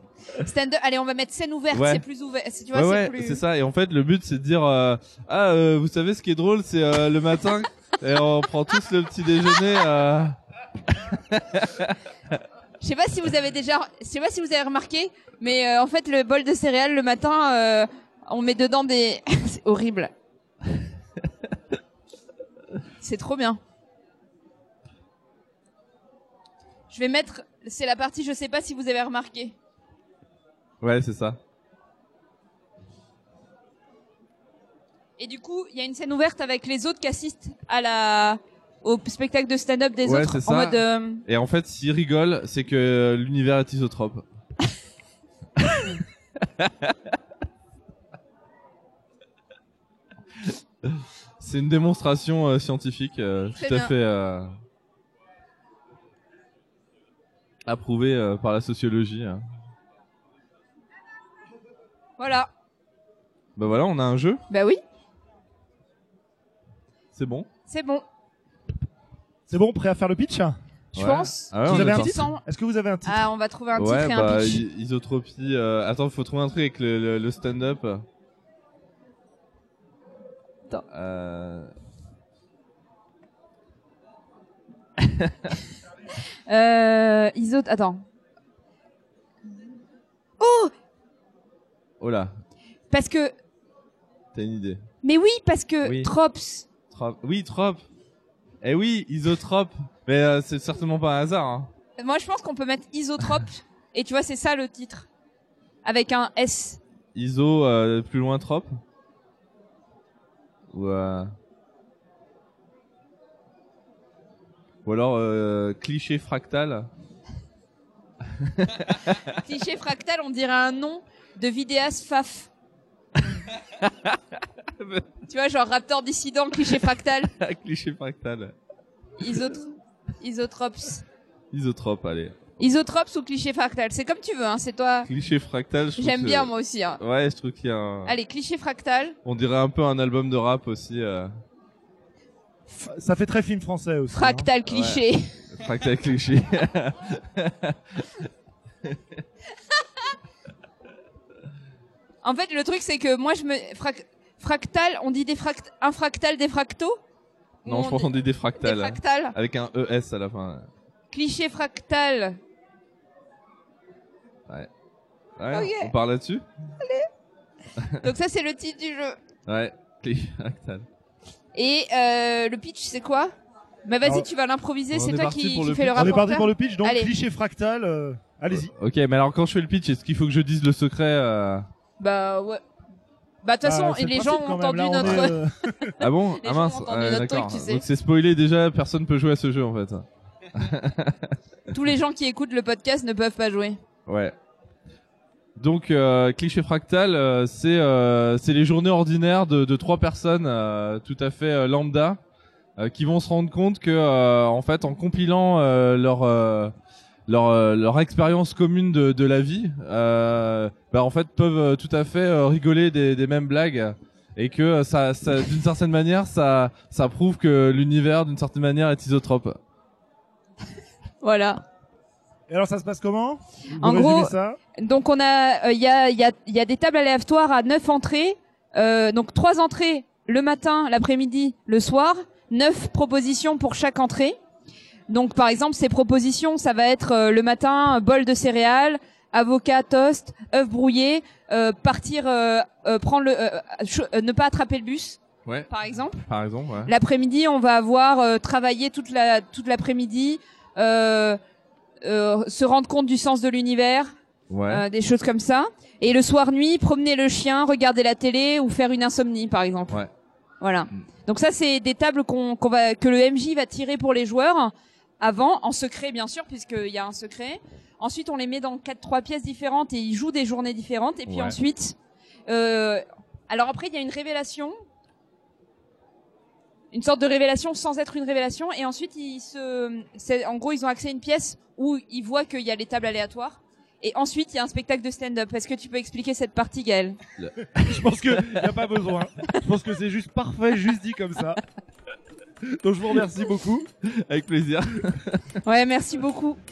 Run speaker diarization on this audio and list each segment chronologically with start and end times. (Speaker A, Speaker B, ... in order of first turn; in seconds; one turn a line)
Speaker A: 0.4-3.4
Speaker B: 1.7-2.0
Speaker B: 2.7-10.4
Speaker B: 10.9-12.0
Speaker A: 12.8-20.1
Speaker A: 23.0-23.6
Speaker A: 26.9-29.6
Speaker B: 30.8-31.4
Speaker A: 35.2-41.2
Speaker B: 40.0-44.2
Speaker B: 45.6-46.9
Speaker B: 50.8-54.5
Speaker A: 53.6-53.9
Speaker B: 57.6-59.4
Speaker A: 62.2-62.5
Speaker B: 63.6-64.4
Speaker A: 64.5-64.8
Speaker B: 67.1-67.5
Speaker A: 67.7-68.0
Speaker C: 69.5-70.6
Speaker A: 70.9-72.4
Speaker B: 70.9-72.3
Speaker C: 71.7-73.3
Speaker A: 73.0-74.6
Speaker B: 73.7-78.0
Speaker B: 80.9-81.7
Speaker B: 85.0-85.3
Speaker A: 86.5-88.0
Speaker A: 90.4-90.7
Speaker B: 92.0-92.3
Speaker A: 92.9-93.3
Speaker B: 94.3-94.8
Speaker A: 95.0-96.7
Speaker B: 95.8-96.1
Speaker B: 96.9-97.8
Speaker B: 98.6-101.7
Speaker A: 102.0-105.1
Speaker A: 105.8-106.8
Speaker B: 107.1-108.7
Speaker B: 110.7-111.3
Speaker B: 114.8-116.9
Speaker B: 118.4-119.4
Speaker A: 119.3-122.5
Speaker B: 123.3-125.1
Speaker A: 125.3-127.3
Speaker B: 126.7-128.5
Speaker A: 129.2-131.0
Speaker B: 131.5-132.5
Speaker A: 132.6-135.1
Speaker B: 135.1-138.1
Speaker A: 136.0-137.0
Speaker A: 138.0-139.2
Speaker B: 139.2-141.3
Speaker C: 142.8-144.5
Speaker A: 144.1-145.4
Speaker B: 144.7-148.2
Speaker A: 152.2-157.0
Speaker A: 157.6-159.3
Speaker B: 157.7-160.7
Speaker A: 161.1-162.4
Speaker B: 165.4-166.4
Speaker A: 165.5-165.9
Speaker A: 166.8-167.1
Speaker A: 168.0-169.2
Speaker B: 169.5-170.8
Speaker A: 171.5-173.3
Speaker A: 173.8-177.1
Speaker B: 174.9-176.2
Speaker C: 175.9-178.7
Speaker B: 178.5-181.7
Speaker A: 182.0-182.6
Speaker A: 183.4-185.3
Speaker C: 183.6-185.9
Speaker B: 185.0-185.3
Speaker B: 186.0-191.3
Speaker A: 186.4-187.8
Speaker A: 191.7-193.8
Speaker B: 194.1-194.3
Speaker B: 195.6-202.2
Speaker B: 202.8-206.7
Speaker B: 207.3-219.6
Speaker A: 221.2-221.6
Speaker C: 222.5-224.6
Speaker A: 223.8-234.4
Speaker A: 235.1-246.2
Speaker B: 246.2-246.9
Speaker A: 246.8-251.4
Speaker A: 252.0-254.1
Speaker B: 254.5-254.8
Speaker A: 254.7-260.0
Speaker A: 260.6-272.0
Speaker B: 271.3-271.6
Speaker A: 272.5-274.7
Speaker A: 276.9-287.2
Speaker B: 287.4-288.8
Speaker C: 287.8-291.6
Speaker C: 292.7-293.9
Speaker B: 294.0-295.6
Speaker A: 295.6-296.6